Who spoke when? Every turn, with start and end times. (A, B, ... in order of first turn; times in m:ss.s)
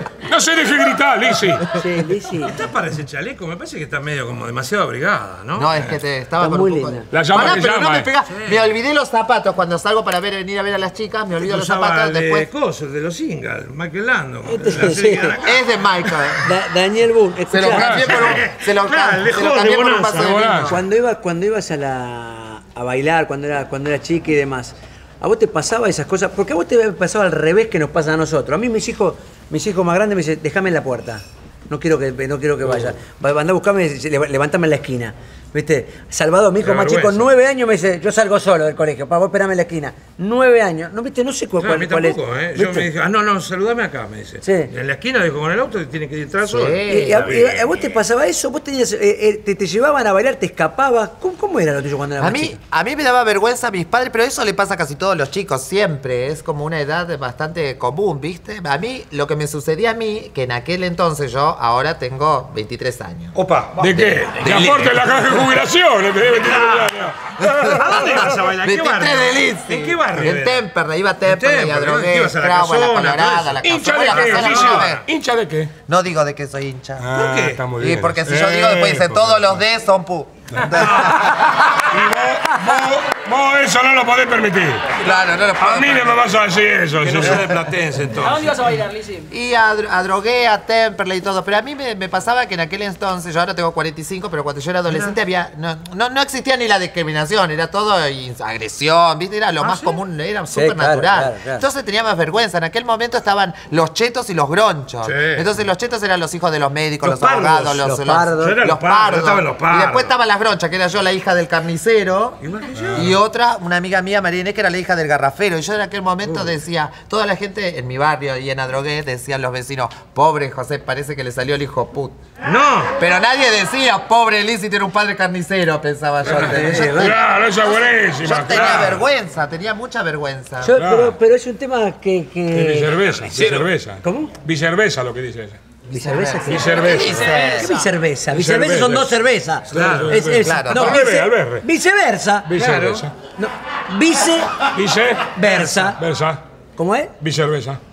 0:00.2-0:01.7 A
0:01.7-0:02.5 B
0:02.4-0:06.0 C
0:05.6-0:12.5 D
0:06.4-0:07.1 B
0:07.1-0:08.1 A
0:08.2-0:08.7 C
0:11.4-0:16.3 C
0:14.5-0:15.4 B
0:15.4-0:16.5 D
0:16.4-0:18.0 B
0:17.5-0:20.8 D
0:17.7-0:18.2 A
0:18.0-0:20.4 C
0:20.2-0:20.7 A
0:20.4-0:42.9 B
0:36.6-0:37.3 C
0:41.6-0:47.9 C
0:44.4-0:44.7 B
0:46.4-0:47.3 D
0:46.8-0:52.6 B
0:52.2-1:03.3 D
1:03.3-1:03.9 C
1:03.8-1:08.2 A
1:04.3-1:04.8 D
1:04.4-1:04.8 C
1:06.3-1:06.9 C
1:07.4-1:15.0 D
1:07.6-1:10.7 C
1:11.2-1:15.0 C
1:13.6-1:15.7 A
1:15.8-1:17.1 D
1:17.0-1:19.4 A
1:17.1-1:17.6 C
1:17.8-1:21.3 D
1:20.6-1:24.9 A
1:24.9-1:26.3 D
1:25.6-1:27.6 A
1:27.0-1:28.6 C
1:28.1-1:29.3 E
1:29.3-1:52.4 D
1:39.6-1:40.0 C
1:40.5-1:41.6 B
1:45.0-1:45.5 C
1:47.0-1:47.8 C
1:47.8-1:48.6 B
1:48.4-1:50.1 C
1:52.4-1:53.2 C
1:52.9-2:02.2 D
2:02.4-2:02.9 C
2:03.0-2:07.2 D
2:06.2-2:06.8 C
2:06.3-2:07.2 B
2:06.9-2:09.0 A
2:08.2-2:10.7 D
2:08.5-2:08.9 C
2:10.6-2:13.0 B
2:10.8-2:11.2 A
2:12.5-2:15.6 A
2:13.2-2:13.6 C
2:14.0-2:14.3 B
2:15.9-2:22.5 B
2:15.9-2:17.7 D
2:16.4-2:17.4 A
2:17.0-2:17.8 E
2:18.3-2:19.1 A
2:19.7-2:21.6 A
2:19.7-2:20.2 C
2:20.4-2:21.0 D
2:22.5-2:23.1 A
2:22.6-2:23.0 C
2:23.3-2:24.6 B
2:24.7-2:26.4 A
2:25.3-2:26.0 B
2:26.8-2:27.1 B
2:27.2-2:27.8 A